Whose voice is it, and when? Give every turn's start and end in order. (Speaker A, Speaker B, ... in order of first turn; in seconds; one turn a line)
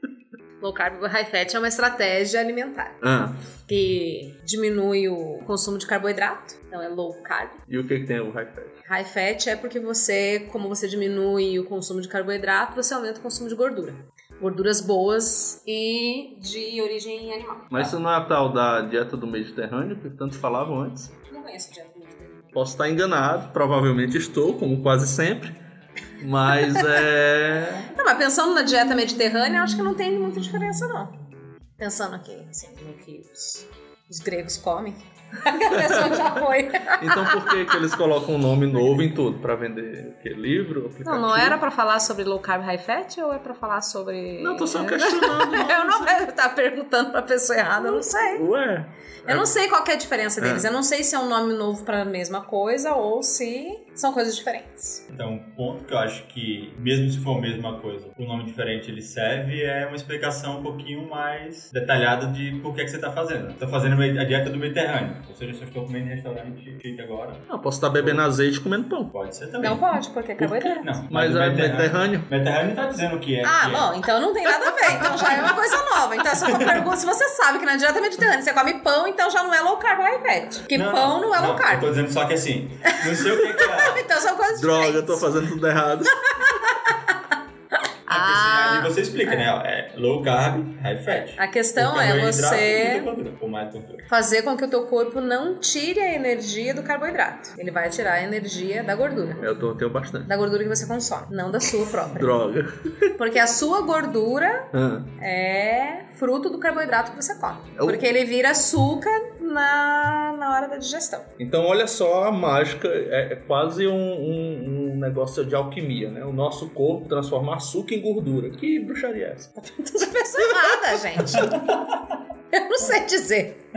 Speaker A: 0.6-3.0
Speaker B: 3.0-3.4
Speaker A: 3.7-7.6
Speaker B: 7.7-8.8
Speaker A: 8.8-17.7
Speaker B: 17.7-21.1
Speaker A: 21.3-22.4
Speaker B: 22.6-25.6
Speaker B: 26.2-27.9
Speaker A: 27.9-31.1
Speaker A: 31.8-38.0
Speaker B: 35.7-36.3
Speaker B: 37.0-41.6
Speaker A: 41.0-48.5
Speaker B: 44.4-46.2
Speaker B: 47.8-49.5
Speaker A: 49.3-55.0
Speaker B: 50.4-50.7
Speaker C: 55.1-67.5
Speaker B: 67.5-69.1
Speaker C: 68.0-68.3
Speaker C: 69.1-69.8
Speaker A: 69.6-71.0
Speaker B: 70.4-72.3
Speaker C: 70.8-73.9
Speaker A: 73.4-81.9
Speaker C: 80.7-84.1
Speaker A: 82.9-85.4
Speaker B: 84.5-86.6
Speaker A: 86.3-87.2
Speaker A: 88.1-89.5
Speaker C: 88.1-94.1
Speaker A: 91.4-93.1
Speaker A: 94.1-99.5
Speaker B: 99.4-100.3
Speaker A: 100.3-102.4
Speaker B: 102.1-103.1
Speaker A: 103.2-111.3
Speaker B: 104.7-105.1
Speaker B: 107.8-108.1
Speaker B: 111.4-119.5
Speaker A: 119.6-121.6
Speaker B: 120.5-121.5
Speaker C: 121.4-122.0
Speaker A: 122.5-123.6